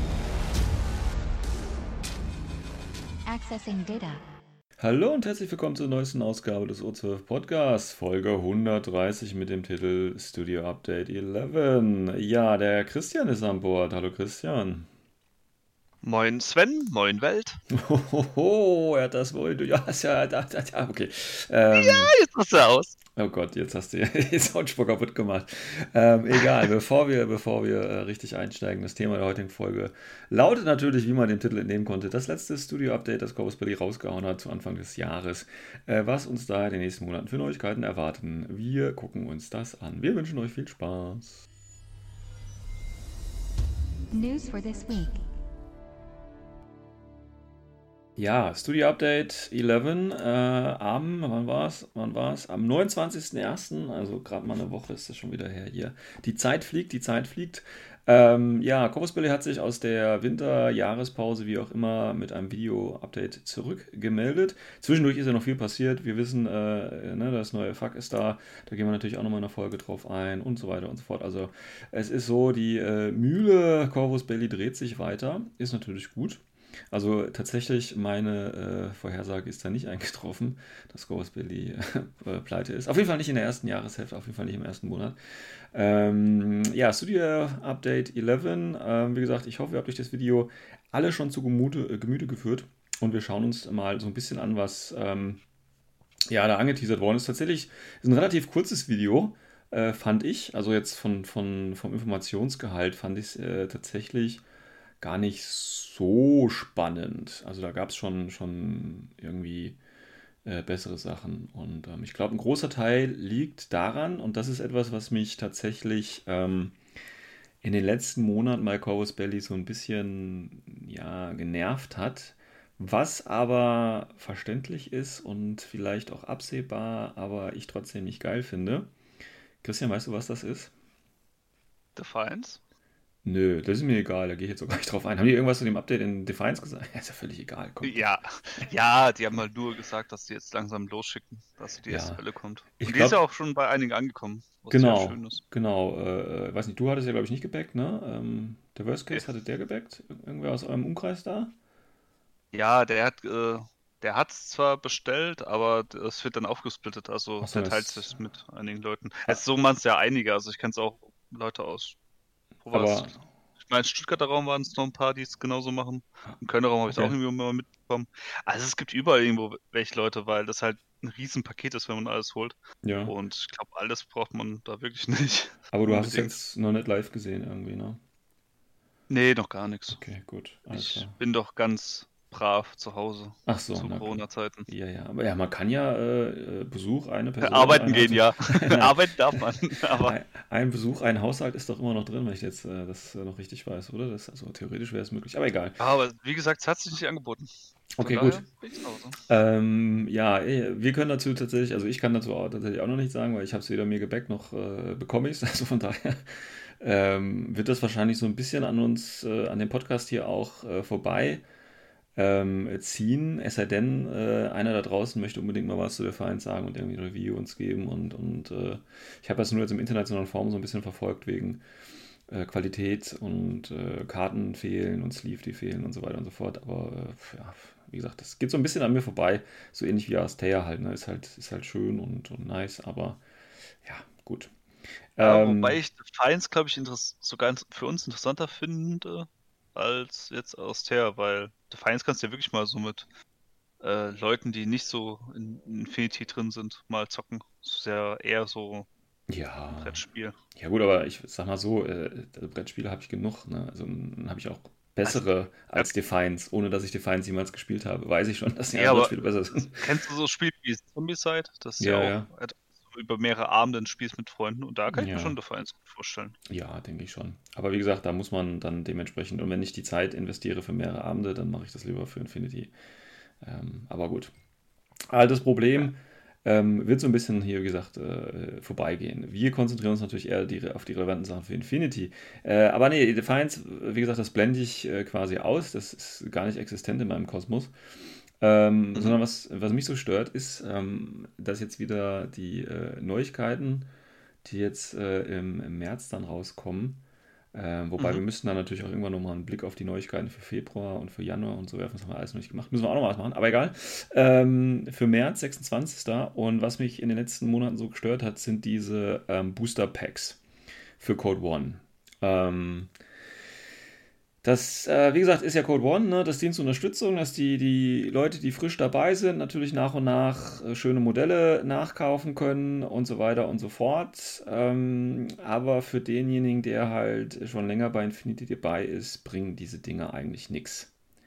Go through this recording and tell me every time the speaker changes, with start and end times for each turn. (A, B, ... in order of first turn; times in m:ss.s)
0:03.2-0:04.2 A
0:04.8-0:14.9 B
0:16.0-0:17.6 C
0:17.7-0:22.1 B
0:21.7-0:23.0 C
0:23.2-0:41.4 B
0:44.1-0:45.2 A
0:48.2-1:25.2 B
1:25.7-1:35.4 B
1:36.3-1:44.4 B
1:45.0-1:49.8 B
1:50.4-1:56.8 B
1:57.6-2:08.9 B
2:09.6-2:10.7 B
2:12.0-2:12.6 C
2:13.2-2:18.6 B
2:17.8-2:25.4 C
2:21.9-2:22.2 B
2:22.8-2:23.2 B
2:24.7-2:31.5 B
2:32.5-2:42.0 C
2:37.4-2:38.2 B
2:42.6-2:56.4 C
2:42.7-2:43.2 B
2:52.8-2:53.1 B
2:55.7-2:58.0 B
2:59.1-3:00.0 C
2:59.9-3:01.1 B
3:00.7-3:04.7 C
3:03.5-3:09.0 B
3:07.4-3:10.1 C
3:10.0-3:15.8 B
3:15.8-3:19.2 C
3:17.9-3:18.4 B
3:19.3-3:31.4 B
3:32.2-3:41.6 B
3:42.3-3:53.2 B
3:53.8-3:54.5 B
3:55.2-3:55.8 B
3:55.2-4:03.1 C
4:03.8-4:08.9 C
4:09.3-4:10.0 B
4:09.8-4:10.4 C
4:10.5-4:19.9 B
4:15.0-4:15.9 C
4:18.7-4:26.4 C
4:21.8-4:22.3 B
4:24.9-4:25.4 B
4:26.5-4:32.7 B
4:33.4-4:34.3 B
4:35.1-4:47.7 B
4:48.4-4:53.9 B
4:54.4-5:10.4 B
4:58.0-4:58.2 C
5:11.0-5:12.9 B
5:14.4-5:30.9 B